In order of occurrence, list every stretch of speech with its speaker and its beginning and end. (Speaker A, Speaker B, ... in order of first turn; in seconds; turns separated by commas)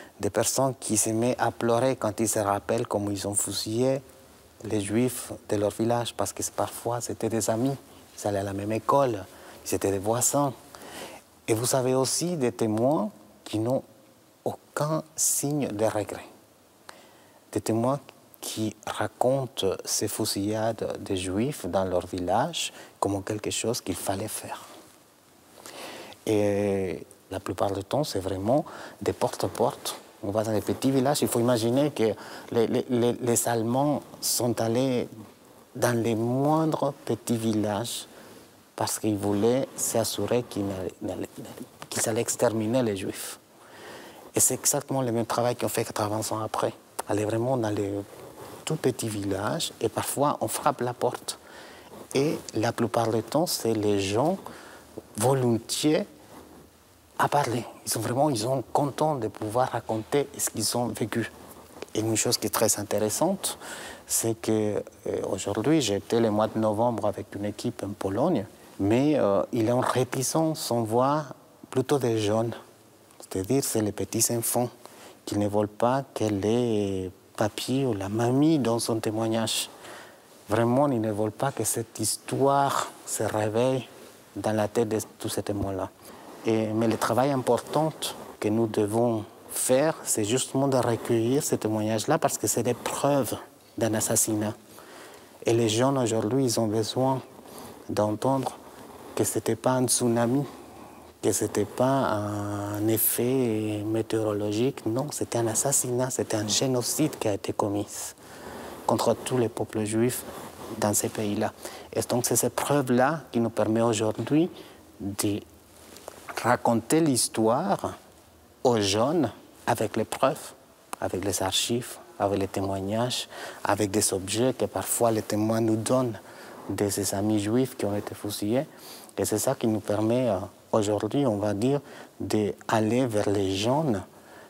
Speaker A: 0.2-4.0, Speaker A: 4.6-10.6, Speaker A: 11.5-13.8, Speaker A: 14.4-16.3, Speaker A: 17.5-24.6, Speaker A: 26.2-35.1, Speaker A: 35.8-38.1, Speaker A: 38.8-43.4, Speaker A: 44.3-48.0, Speaker A: 48.6-51.4, Speaker A: 52.1-54.4, Speaker A: 55.1-56.1, Speaker A: 57.2-61.3, Speaker A: 61.9-72.5, Speaker A: 73.2-74.7, Speaker A: 75.2-79.7, Speaker A: 80.5-85.9, Speaker A: 86.4-94.5, Speaker A: 95.4-97.2, Speaker A: 97.9-98.6, Speaker A: 99.1-100.5, Speaker A: 101.2-108.2, Speaker A: 108.9-115.5, Speaker A: 116.4-118.0, Speaker A: 118.6-134.1